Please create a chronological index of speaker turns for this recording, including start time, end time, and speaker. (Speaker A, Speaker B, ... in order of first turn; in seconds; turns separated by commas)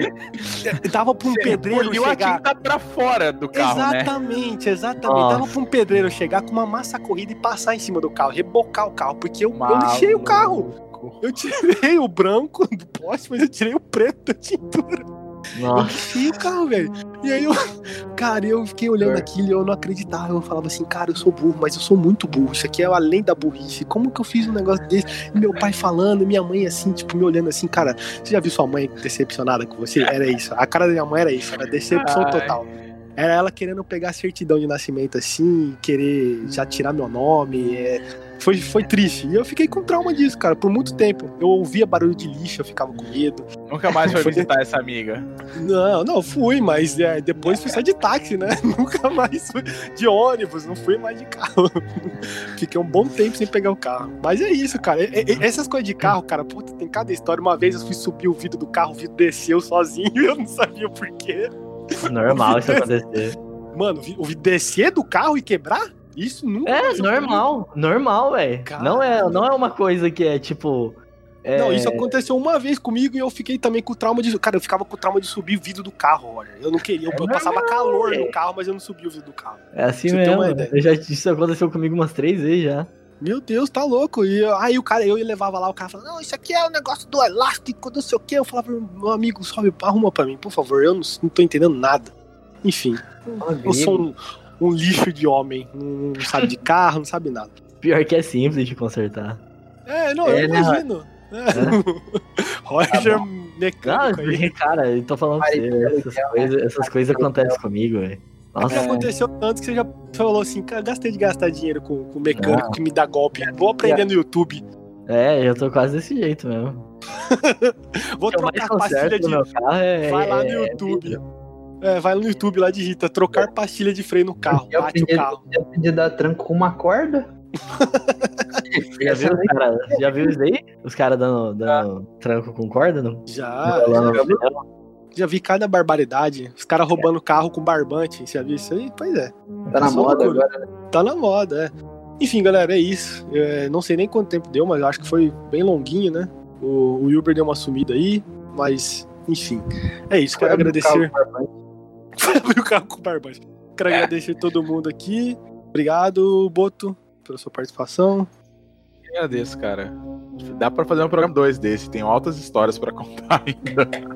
Speaker A: 0.6-2.4, Speaker B: 1.3-4.1, Speaker A: 3.5-10.7, Speaker C: 5.0-5.5, Speaker B: 9.5-11.2, Speaker A: 11.2-15.0, Speaker C: 15.5-16.2, Speaker A: 15.7-17.6, Speaker A: 18.1-43.5, Speaker D: 19.0-19.3, Speaker B: 31.9-32.7, Speaker B: 43.7-45.3, Speaker A: 44.0-44.5, Speaker A: 45.5-62.9, Speaker C: 62.0-63.4, Speaker A: 63.7-67.5, Speaker C: 66.6-72.2, Speaker A: 68.7-69.5, Speaker A: 71.5-80.7, Speaker C: 77.1-78.3, Speaker C: 79.7-82.9, Speaker A: 83.2-97.5, Speaker D: 93.4-94.0, Speaker C: 97.8-99.4, Speaker A: 99.9-104.5, Speaker D: 100.2-100.8, Speaker C: 101.5-101.8, Speaker C: 102.9-103.2, Speaker C: 103.8-109.1, Speaker D: 105.4-107.6, Speaker A: 108.7-114.6, Speaker C: 112.4-112.7, Speaker D: 113.4-114.1, Speaker C: 115.1-116.8, Speaker A: 117.2-119.5, Speaker C: 118.3-121.2, Speaker A: 120.0-121.2, Speaker A: 121.8-125.4, Speaker D: 124.5-127.2, Speaker A: 127.7-128.4, Speaker D: 128.7-130.2, Speaker C: 129.0-134.6, Speaker A: 133.3-134.2, Speaker D: 133.9-134.4, Speaker A: 135.1-151.1, Speaker D: 139.7-140.6, Speaker D: 150.4-151.5, Speaker A: 152.2-158.3, Speaker B: 159.1-163.9